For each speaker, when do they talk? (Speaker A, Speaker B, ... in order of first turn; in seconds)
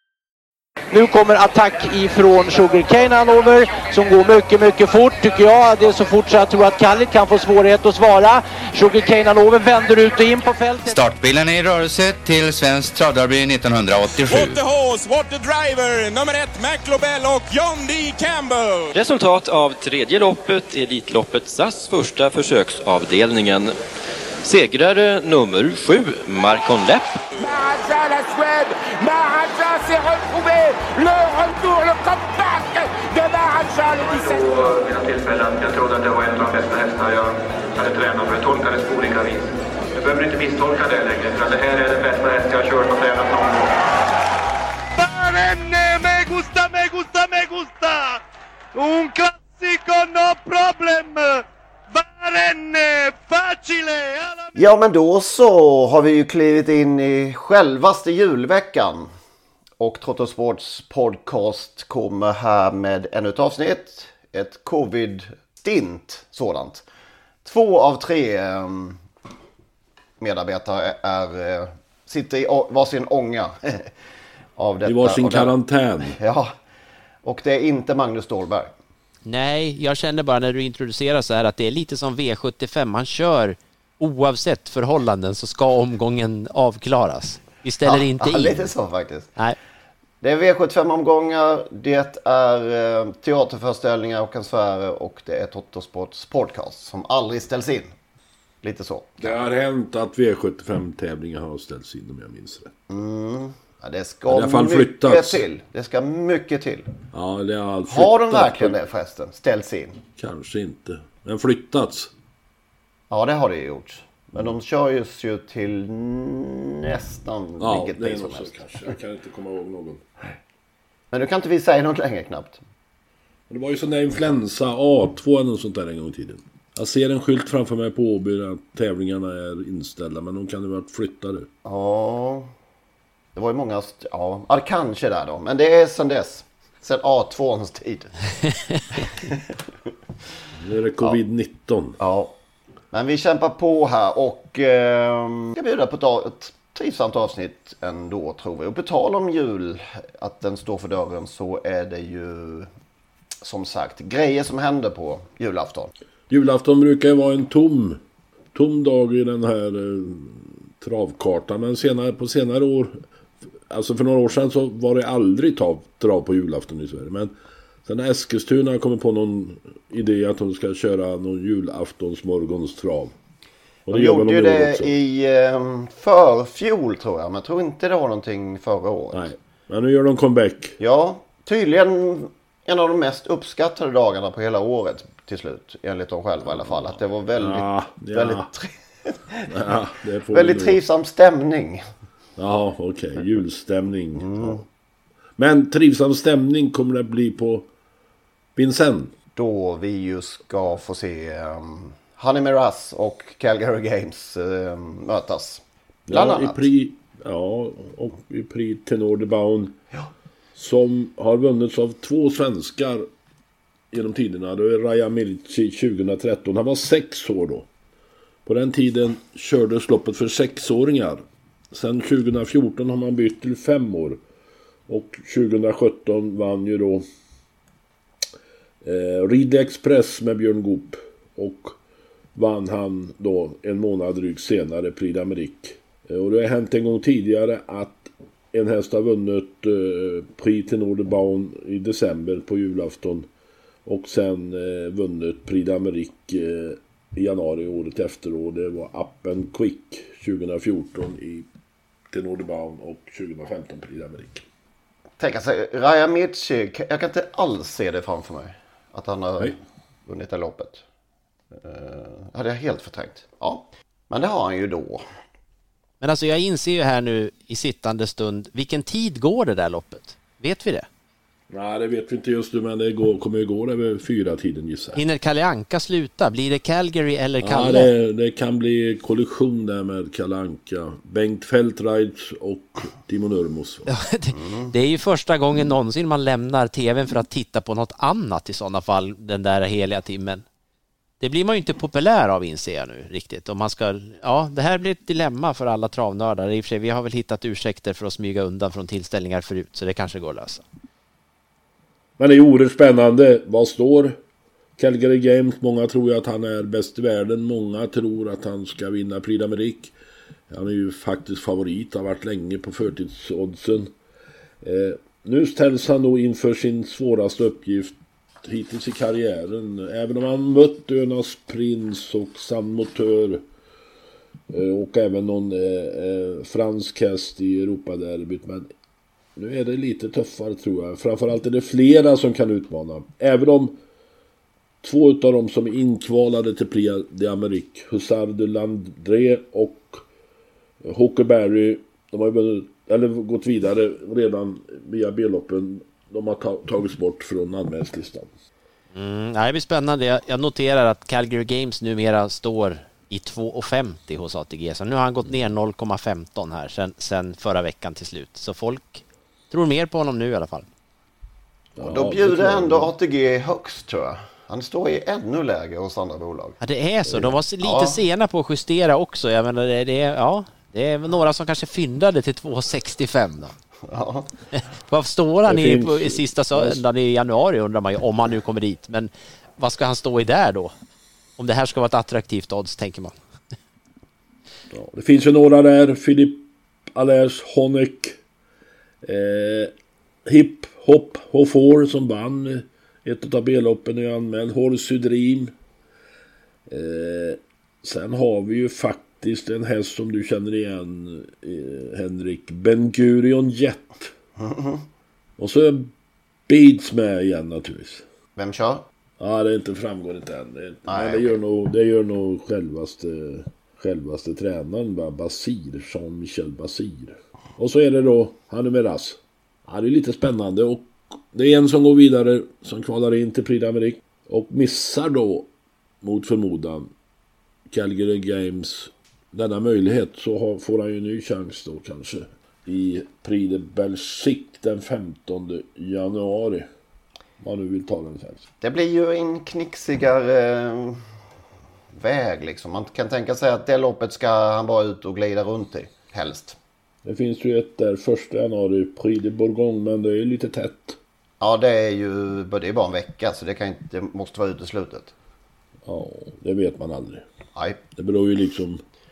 Speaker A: 0.9-11.0
Speaker B: 10.8-14.6
Speaker C: 14.3-18.9
Speaker D: 19.0-23.7, 24.4-27.1
Speaker E: 27.4-34.5
Speaker F: 34.0-43.7
Speaker G: 45.0-48.2, 48.7-54.5
Speaker H: 54.5-59.1, 59.8-66.8, 67.4-69.0, 70.2-73.9, 74.6-76.5, 77.2-78.7, 87.8-89.3, 90.2-97.9, 98.6-99.4, 102.9-107.0, 107.9-110.0, 113.1-118.6, 121.1-122.6, 131.6-132.5, 133.3-138.1, 138.9-139.3, 142.0-142.4, 142.9-152.7, 153.4-155.9, 173.9-179.3, 180.8-189.5, 190.3-191.8, 194.2-194.6, 199.3-206.6, 255.2-260.8, 261.6-265.0, 284.4-284.7, 361.8-366.6, 367.6-368.0, 373.9-374.3, 404.4-404.8, 408.4-408.9, 410.9-411.4, 438.6-441.0, 442.0-446.6, 451.4-455.1
Speaker I: 74.8-76.2, 99.2-102.7, 104.3-105.4, 107.1-108.8, 110.2-112.1, 117.6-120.0, 123.5-131.5, 140.6-142.0, 156.3-158.0, 158.5-162.9, 163.7-167.3, 167.8-173.1, 173.8-174.9, 179.1-180.8, 187.3-188.4, 189.5-190.8, 192.4-194.6, 195.4-197.7, 198.6-199.1, 206.1-209.8, 210.5-213.0, 213.9-217.7, 218.4-224.2, 224.9-227.0, 228.8-231.7, 232.3-243.3, 243.8-251.5, 252.1-254.4, 271.5-275.0, 277.4-283.9, 302.2-304.1, 304.8-309.9, 310.5-313.9, 314.6-323.4, 324.5-328.7, 329.4-333.8, 334.8-340.0, 340.8-348.3, 361.8-362.9, 367.1-367.4, 375.4-376.8, 384.7-388.2, 389.0-389.7, 390.2-395.5, 396.7-404.1, 405.4-405.9, 406.5-408.0, 409.2-425.5, 426.0-426.9, 427.7-436.6, 437.4-438.4, 447.0-451.0, 455.9-457.2, 457.9-458.8
Speaker J: 79.2-88.7, 266.0-270.9, 274.9-277.9, 283.9-290.4, 291.2-300.6, 348.9-360.7, 366.6-373.5, 374.5-380.7, 381.4-383.1